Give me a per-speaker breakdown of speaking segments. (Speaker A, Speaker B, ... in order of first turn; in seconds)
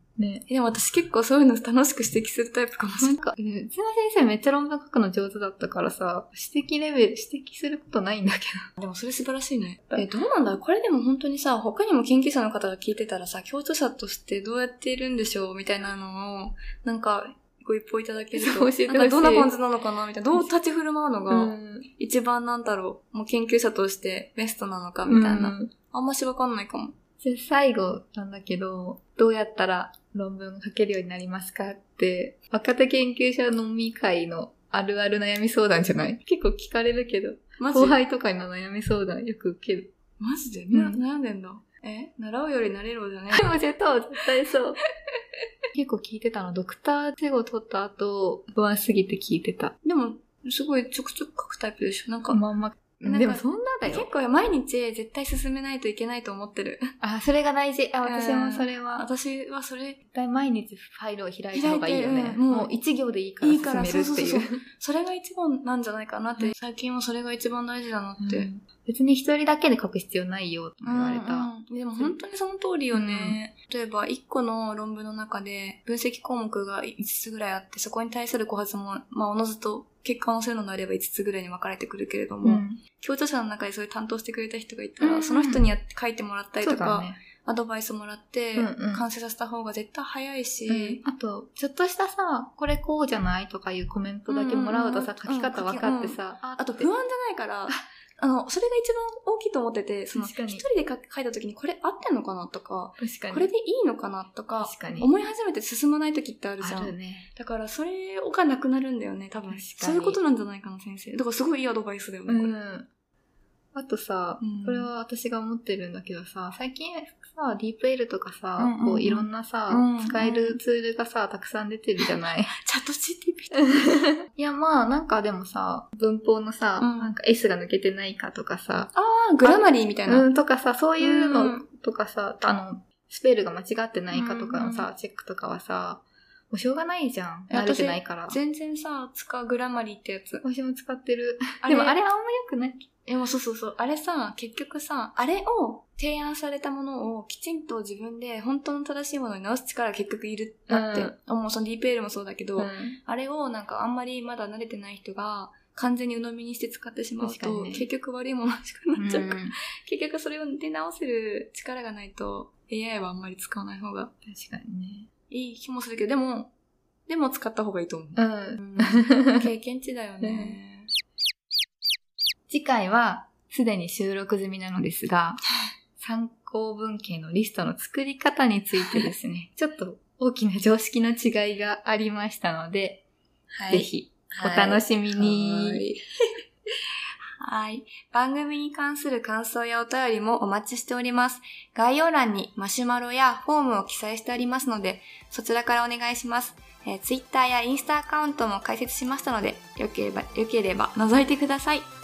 Speaker A: 0.2-0.5, 3.0-8.7, 18.3-19.5, 21.3-21.9, 25.1-25.7, 27.2-39.9, 40.7-41.0, 43.3-44.8, 45.7-49.7, 52.3-54.1, 57.0-59.1, 60.1-64.5, 68.2-72.2, 72.9-73.4, 82.4-82.8, 85.0-85.7, 86.6-87.2, 88.6-89.0, 90.7-96.9, 100.2-100.7, 103.0-103.5, 104.6-105.1, 106.6-107.3, 109.5-110.2, 112.3-112.9, 113.7-122.5, 123.7-138.4, 140.4-142.9, 150.7-151.1, 152.6-153.0, 157.2-157.9, 159.0-159.6, 164.2-165.1, 168.2-169.5, 170.2-170.6, 172.5-175.4, 176.0-183.0, 183.7-185.8
Speaker B: 0.5-3.2, 8.8-27.0, 37.6-38.0, 40.2-43.5, 49.8-52.4, 53.0-56.9, 58.0-60.0, 61.5-62.8, 63.4-68.5, 70.8-91.0, 94.3-112.5, 114.4-114.9, 118.6-120.6, 122.0-124.1, 126.8-127.1, 128.9-130.3, 131.0-131.7, 134.1-134.9, 137.5-140.4, 141.6-142.0, 143.1-164.1, 165.3-166.5, 167.1-170.9, 183.5-186.0, 187.4-201.9